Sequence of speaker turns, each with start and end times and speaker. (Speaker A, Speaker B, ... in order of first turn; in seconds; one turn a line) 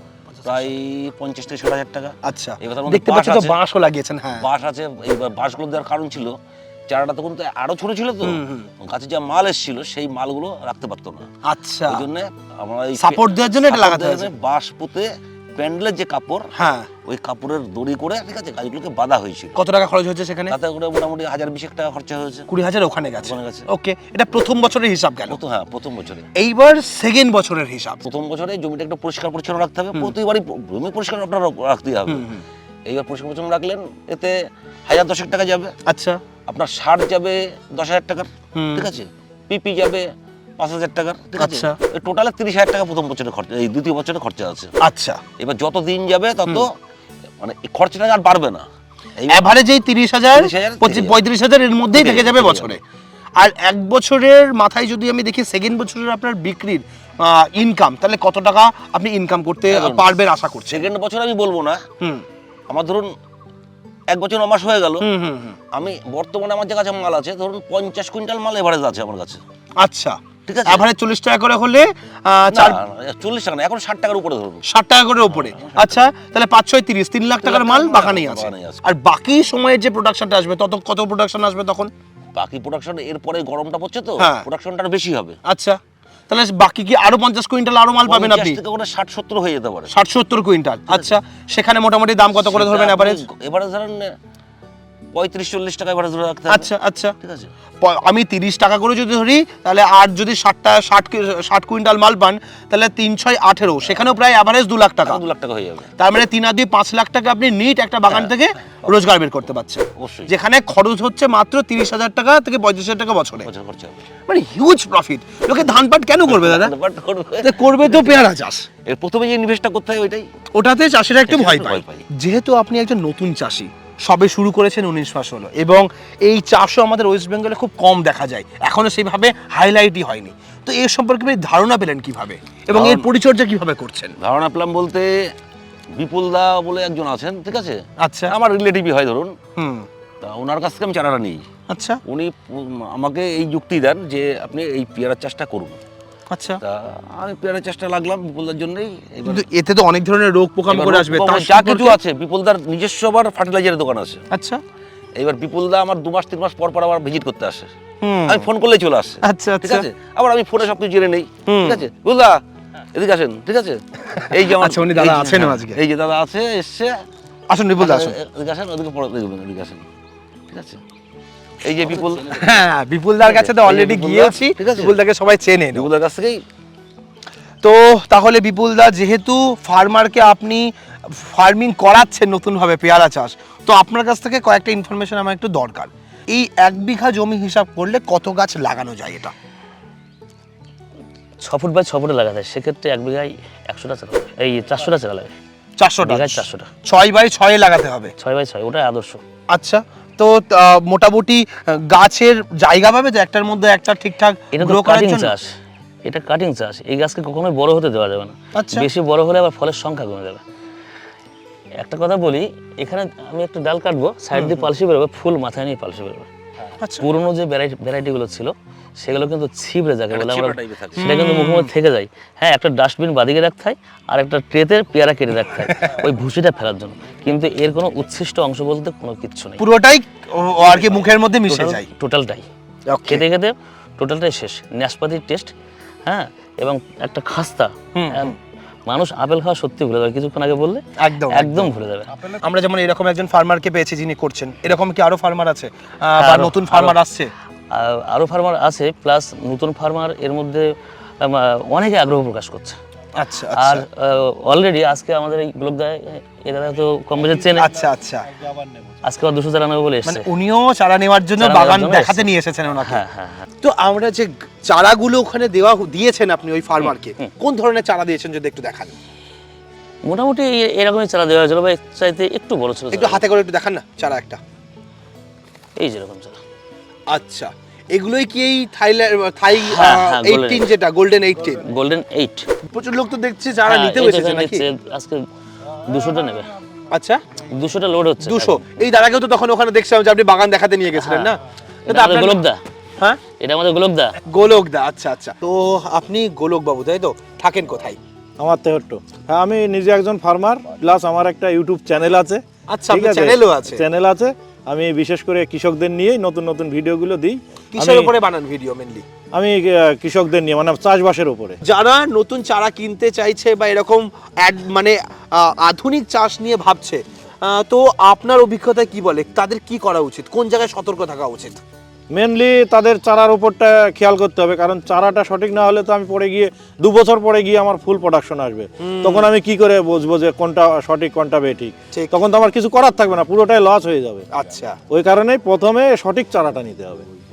Speaker A: 0.4-0.7
Speaker B: 0.4-3.6
Speaker A: 2.2-4.5
Speaker B: 4.4-6.3
Speaker B: 6.9-11.3
Speaker A: 8.2-8.7
Speaker A: 11.4-12.1
Speaker B: 11.9-16.5
Speaker A: 13.0-14.3
Speaker A: 16.5-16.9
Speaker B: 17.0-19.6
Speaker A: 19.6-20.6
Speaker B: 20.5-22.5
Speaker A: 22.5-25.4
Speaker B: 23.2-23.6
Speaker B: 25.3-26.3
Speaker A: 26.3-28.0
Speaker B: 28.0-32.3
Speaker A: 32.1-32.4
Speaker B: 32.9-35.7
Speaker A: 35.9-36.2
Speaker B: 36.5-40.1
Speaker A: 38.5-38.9
Speaker B: 40.6-44.7
Speaker A: 41.4-41.8
Speaker A: 44.8-45.2
Speaker B: 45.4-46.7
Speaker B: 47.4-48.7
Speaker B: 49.2-49.5
Speaker A: 49.3-52.8
Speaker B: 50.3-51.2
Speaker B: 51.9-52.8
Speaker A: 53.4-60.9
Speaker B: 59.7-60.1
Speaker B: 60.7-61.8
Speaker B: 62.7-63.1
Speaker B: 64.1-65.0
Speaker A: 65.0-65.6
Speaker B: 65.7-69.4
Speaker A: 69.8-72.8
Speaker B: 70.5-70.8
Speaker B: 72.5-74.6
Speaker A: 74.7-81.9
Speaker B: 75.3-76.0
Speaker B: 77.4-78.8
Speaker B: 82.3-85.4
Speaker A: 84.2-84.5
Speaker A: 85.5-88.6
Speaker B: 88.0-89.9
Speaker A: 89.9-93.2
Speaker B: 92.3-94.1
Speaker B: 95.1-96.7
Speaker A: 96.5-97.1
Speaker B: 97.2-97.5
Speaker A: 97.8-105.2
Speaker B: 105.0-105.9
Speaker A: 106.0-113.5
Speaker B: 110.0-110.3
Speaker B: 113.4-114.0
Speaker A: 114.3-116.7
Speaker B: 116.2-118.3
Speaker A: 117.4-118.7
Speaker B: 118.9-120.3
Speaker A: 120.5-134.1
Speaker B: 121.3-122.0
Speaker B: 132.7-133.1
Speaker B: 134.2-135.1
Speaker B: 135.9-139.3
Speaker A: 138.0-138.3
Speaker A: 139.6-139.8
Speaker B: 140.2-141.4
Speaker A: 141.7-142.0
Speaker B: 142.0-145.8
Speaker A: 146.3-146.6
Speaker B: 146.6-149.5
Speaker A: 149.3-152.0
Speaker B: 150.7-154.2
Speaker A: 154.3-154.6
Speaker B: 155.2-157.7
Speaker A: 158.0-158.5
Speaker B: 158.3-162.4
Speaker A: 159.2-159.9
Speaker A: 161.4-161.8
Speaker B: 162.9-166.9
Speaker A: 164.1-165.8
Speaker A: 167.5-168.1
Speaker B: 167.8-169.8
Speaker B: 170.5-170.8
Speaker B: 171.6-172.6
Speaker A: 172.3-175.9
Speaker B: 173.2-175.0
Speaker B: 175.7-176.4
Speaker A: 177.6-189.3
Speaker C: 191.4-195.3
Speaker A: 195.8-198.1
Speaker C: 196.0-196.7
Speaker C: 198.2-199.2
Speaker A: 199.5-205.3
Speaker C: 204.5-205.5
Speaker C: 206.0-210.4
Speaker A: 208.5-208.9
Speaker C: 211.8-216.3
Speaker A: 214.3-214.7
Speaker A: 216.8-217.1
Speaker C: 217.0-229.6
Speaker B: 220.1-221.1
Speaker A: 221.0-221.7
Speaker A: 225.6-225.9
Speaker A: 229.6-231.9
Speaker C: 231.5-232.4
Speaker A: 232.9-233.2
Speaker C: 233.1-235.5
Speaker C: 236.1-238.3
Speaker A: 237.9-238.3
Speaker C: 238.9-242.1
Speaker A: 241.0-247.3
Speaker C: 246.2-247.0
Speaker C: 247.7-250.7
Speaker C: 251.2-252.8
Speaker A: 253.2-253.9
Speaker C: 253.5-257.7
Speaker A: 257.5-258.2
Speaker C: 259.0-260.3
Speaker A: 260.0-263.0
Speaker C: 261.4-262.3
Speaker C: 262.8-263.5
Speaker A: 263.6-268.9
Speaker C: 266.8-267.3
Speaker C: 270.0-273.2
Speaker A: 272.9-274.4
Speaker C: 275.8-276.4
Speaker A: 277.1-281.6
Speaker C: 279.5-280.7
Speaker C: 281.5-282.5
Speaker A: 282.7-284.6
Speaker C: 283.6-285.2
Speaker C: 285.8-286.5
Speaker A: 286.9-287.2
Speaker C: 287.5-288.6
Speaker A: 288.2-292.4
Speaker C: 290.9-291.3
Speaker C: 291.9-292.6
Speaker C: 293.4-294.1
Speaker A: 294.3-298.0
Speaker D: 298.4-308.1
Speaker A: 302.7-303.8
Speaker A: 307.7-309.0
Speaker D: 309.3-311.6
Speaker A: 311.6-321.6
Speaker D: 322.1-334.3
Speaker A: 328.8-329.3
Speaker A: 334.3-334.8
Speaker D: 334.9-337.0